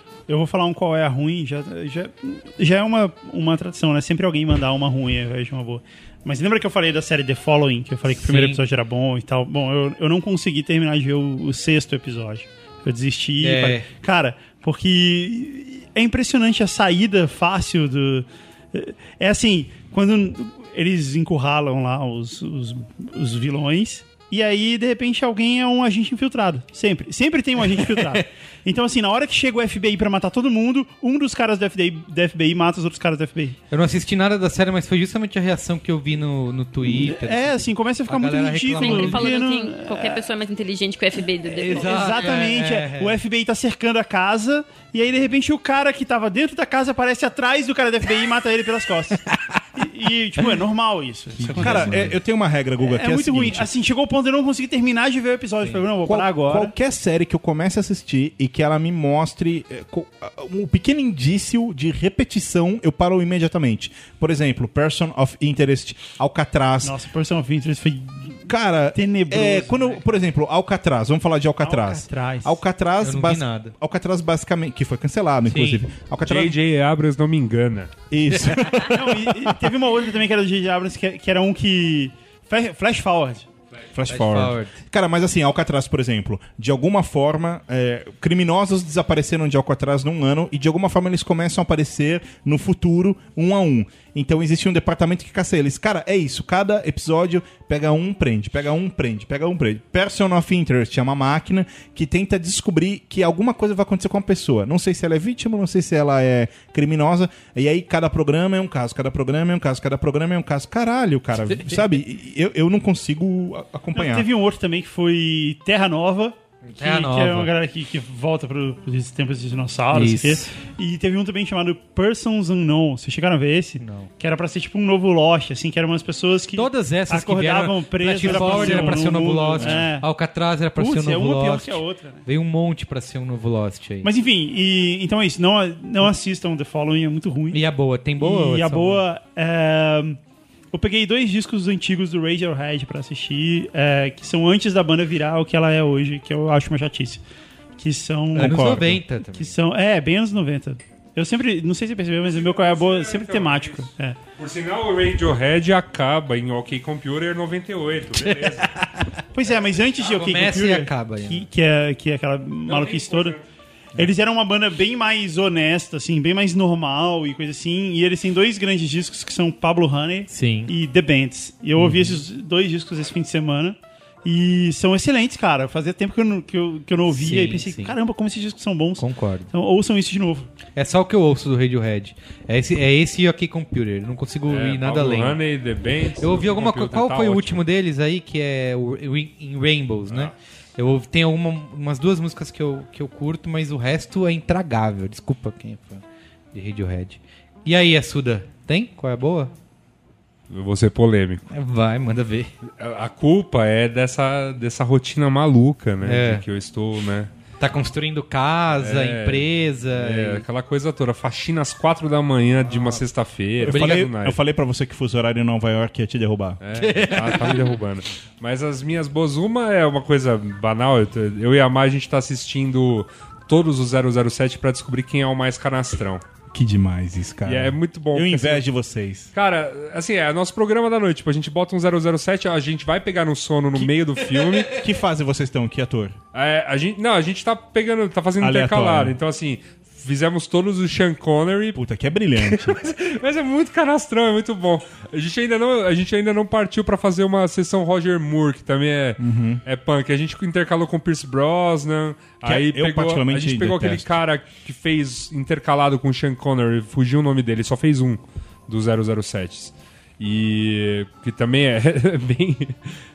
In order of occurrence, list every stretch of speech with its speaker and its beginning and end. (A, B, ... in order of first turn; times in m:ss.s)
0:00.3-0:33.6 A
0:08.1-0:08.6 B
0:13.4-0:13.9 B
0:27.7-0:28.2 B
0:33.7-0:39.3 B
0:37.0-0:40.2 A
0:38.8-0:42.3 C
0:41.5-0:43.2 B
0:41.7-0:49.2 A
0:49.2-0:49.6 B
0:49.8-0:52.1 A
0:51.4-0:52.2 B
0:51.6-0:53.7 D
0:52.8-0:56.7 A
0:56.0-1:07.0 D
1:06.8-1:10.1 A
1:08.5-1:16.6 D
1:11.6-1:12.6 A
1:13.0-1:13.7 B
1:15.5-1:15.8 B
1:16.2-1:17.9 E
1:18.1-1:19.6 D
1:18.3-1:18.6 B
1:18.8-1:23.5 A
1:23.9-1:54.3 D
1:24.1-1:24.8 B
1:51.5-1:51.8 B
1:53.9-2:10.1 A
1:56.6-1:57.5 B
1:59.9-2:00.5 B
2:03.8-2:04.1 B
2:06.5-2:14.1 B
2:10.8-2:12.2 A
2:14.0-2:17.6 A
2:17.5-2:19.0 B
2:18.2-2:20.2 A
2:20.7-2:27.2 A
2:27.8-2:34.2 A
2:28.3-2:29.5 B
2:28.4-2:29.0 D
2:32.3-2:38.7 E
2:38.2-2:39.1 B
2:39.3-2:43.4 A
2:40.0-2:41.4 B
2:42.6-2:43.4 E
2:44.0-3:00.5 A
2:50.3-2:50.7 B
2:51.8-2:52.2 B
2:57.1-2:58.0 B
2:59.0-2:59.5 B
3:00.7-3:05.4 B
3:04.5-3:07.6 E
3:06.2-3:19.5 B
3:20.5-3:21.4 E
3:21.5-3:22.5 B
3:22.8-3:27.3 E
3:26.0-3:26.4 B
3:27.6-3:30.4 B
3:28.8-3:34.4 E
3:32.6-3:33.0 B
3:33.6-3:36.6 D
3:33.7-3:34.0 B
3:36.6-3:46.2 E
3:36.7-3:37.7 B
3:46.5-3:49.3 D
3:47.4-3:48.6 E
3:49.3-3:54.8 E
3:54.7-3:56.2 D
3:56.3-4:01.8 E
3:58.4-3:59.2 D
4:01.7-4:02.9 D
4:02.4-4:22.9 E
4:09.2-4:09.6 D
4:12.4-4:14.2 D